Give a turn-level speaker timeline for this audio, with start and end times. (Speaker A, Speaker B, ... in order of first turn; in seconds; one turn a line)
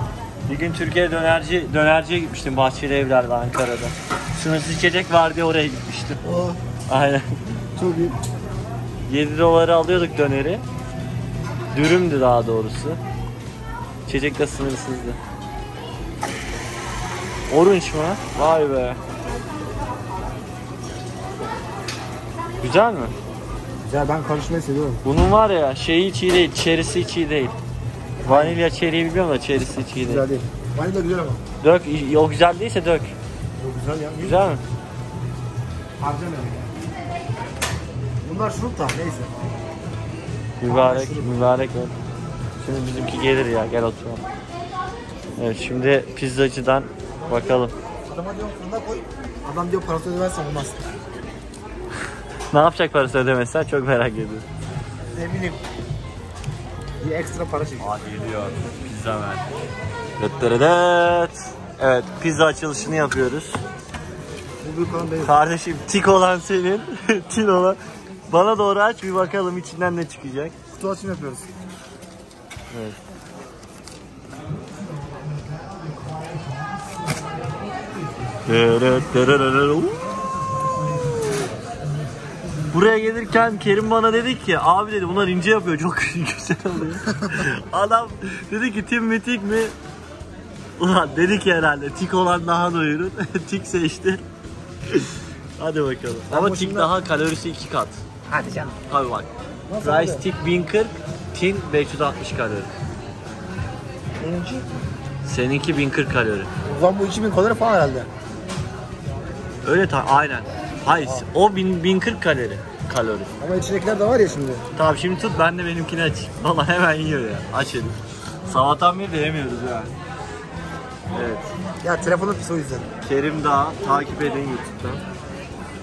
Speaker A: 0.5-6.2
Speaker B: 6.2-6.6
Speaker A: 6.9-7.3
Speaker B: 7.8-8.2
Speaker A: 9.1-10.6
Speaker A: 11.7-13.0
Speaker A: 14.1-15.2
Speaker A: 17.5-19.0
Speaker A: 22.6-23.1
Speaker B: 23.8-25.0
Speaker A: 25.0-27.6
Speaker B: 28.2-28.6
Speaker A: 28.2-30.2
Speaker B: 30.0-31.4
Speaker A: 31.6-33.1
Speaker B: 33.6-34.5
Speaker A: 34.2-34.6
Speaker B: 36.0-36.7
Speaker B: 38.2-39.6
Speaker A: 40.6-41.9
Speaker B: 40.7-41.5
Speaker A: 42.6-44.2
Speaker A: 45.4-47.7
Speaker B: 47.1-50.9
Speaker A: 52.5-54.4
Speaker B: 55.1-55.6
Speaker B: 57.0-57.9
Speaker A: 57.8-59.4
Speaker A: 60.2-63.6
Speaker B: 64.6-65.3
Speaker A: 65.2-70.5
Speaker B: 70.7-71.5
Speaker A: 72.7-73.0
Speaker A: 78.5-80.0
Speaker A: 82.7-89.7
Speaker A: 90.8-94.2
Speaker A: 94.9-98.0
Speaker B: 96.3-96.9
Speaker B: 98.3-98.8
Speaker A: 98.9-99.3
Speaker B: 99.7-100.2
Speaker A: 99.8-102.7
Speaker B: 104.2-104.7
Speaker A: 105.2-106.5
Speaker B: 106.6-108.1
Speaker A: 109.6-113.3
Speaker B: 113.4-114.6
Speaker A: 114.8-119.9
Speaker A: 121.1-121.5
Speaker B: 121.8-122.9
Speaker A: 123.0-125.0